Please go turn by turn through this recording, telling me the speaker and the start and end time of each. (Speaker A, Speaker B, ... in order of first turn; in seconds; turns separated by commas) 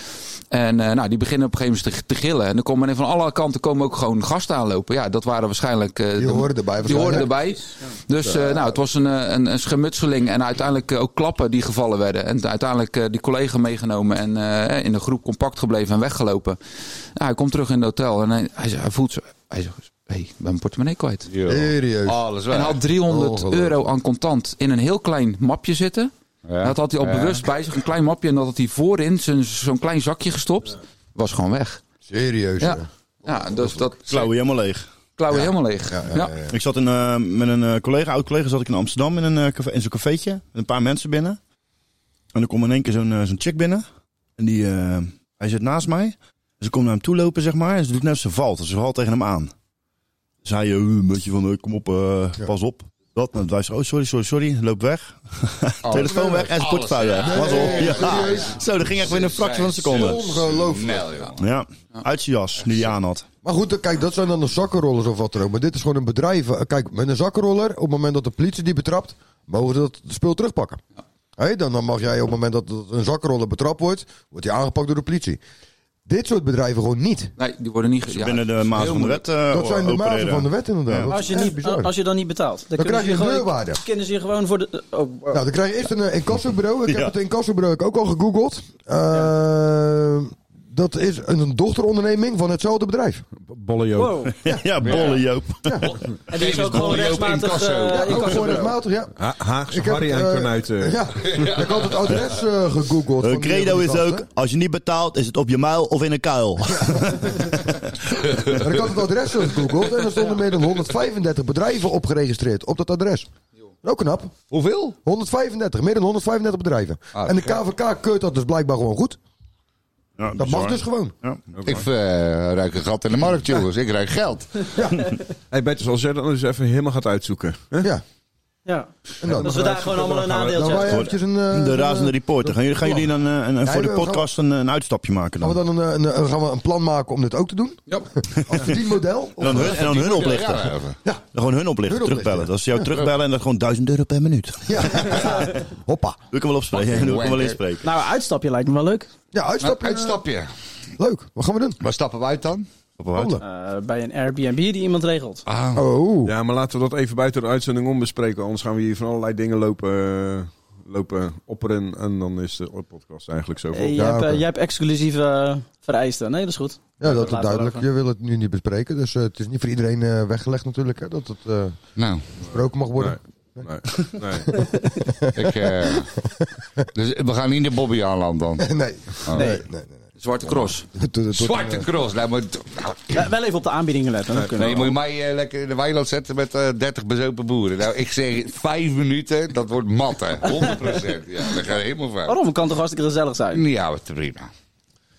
Speaker A: 0.5-16.6, Speaker B: 6.2-7.3, Speaker A: 17.2-21.3, Speaker C: 21.3-22.8, Speaker B: 21.4-22.2, Speaker A: 22.5-26.1, Speaker B: 23.1-23.8, Speaker C: 26.5-27.5, Speaker A: 26.6-31.8, Speaker B: 32.1-32.9, Speaker A: 32.6-34.3, Speaker D: 34.1-34.9, Speaker A: 35.2-36.4, Speaker B: 35.3-36.5, Speaker D: 36.5-41.4, Speaker D: 42.3-43.8, Speaker D: 44.4-49.5, Speaker D: 50.4-60.2, Speaker C: 55.8-61.4, Speaker B: 55.9-56.5, Speaker B: 57.2-58.5, Speaker B: 59.9-61.1, Speaker D: 61.4-63.2, Speaker B: 63.4-70.8, Speaker B: 71.4-75.4, Speaker B: 76.0-77.3, Speaker A: 77.4-79.2, Speaker D: 78.1-81.1, Speaker B: 79.5-81.9, Speaker E: 81.1-85.4, Speaker B: 82.7-83.8, Speaker B: 85.3-93.2, Speaker D: 86.9-87.1, Speaker F: 93.4-94.2, Speaker E: 94.0-94.3, Speaker D: 94.4-95.8, Speaker B: 94.5-95.0, Speaker C: 94.8-95.2, Speaker C: 95.8-98.6, Speaker E: 96.3-98.7, Speaker B: 97.9-99.1, Speaker F: 99.2-101.0, Speaker B: 99.7-104.2, Speaker C: 101.2-102.2, Speaker D: 103.2-107.8, Speaker B: 106.8-107.5, Speaker B: 108.5-113.3, Speaker B: 113.8-114.3, Speaker C: 114.5-115.0, Speaker B: 115.0-119.2, Speaker C: 117.1-117.6, Speaker D: 120.2-121.4, Speaker B: 120.4-121.1, Speaker F: 121.5-121.8, Speaker C: 121.6-124.7, Speaker F: 125.5-127.9, Speaker E: 128.7-130.9, Speaker B: 129.2-129.8, Speaker F: 129.2-130.9, Speaker B: 130.5-133.0, Speaker D: 130.9-135.6, Speaker B: 133.6-134.3, Speaker B: 135.4-137.8, Speaker B: 138.4-139.8, Speaker D: 139.4-140.7, Speaker C: 139.5-141.0, Speaker D: 141.3-145.5, Speaker B: 141.8-142.8, Speaker B: 144.7-146.2, Speaker D: 146.3-147.9, Speaker C: 146.7-147.6, Speaker E: 147.8-149.1, Speaker B: 149.3-150.2, Speaker C: 149.6-150.5, Speaker B: 151.0-151.8, Speaker C: 151.8-152.7, Speaker D: 153.0-153.4, Speaker B: 153.1-153.4, Speaker E: 153.4-155.4, Speaker C: 155.5-155.8, Speaker B: 155.7-156.3, Speaker F: 156.2-164.1, Speaker E: 163.7-167.8, Speaker B: 163.9-164.4, Speaker B: 167.0-171.8, Speaker C: 171.9-172.2, Speaker B: 172.5-173.6, Speaker F: 173.0-174.6, Speaker E: 174.5-175.0, Speaker B: 175.2-175.9, Speaker C: 175.3-176.1, Speaker C: 176.9-178.7, Speaker B: 178.6-180.1, Speaker C: 179.2-179.6, Speaker A: 180.2-180.9, Speaker B: 180.9-181.9, Speaker C: 181.3-183.2, Speaker E: 183.1-184.9, Speaker C: 184.6-192.3, Speaker E: 192.2-193.6, Speaker C: 193.5-194.5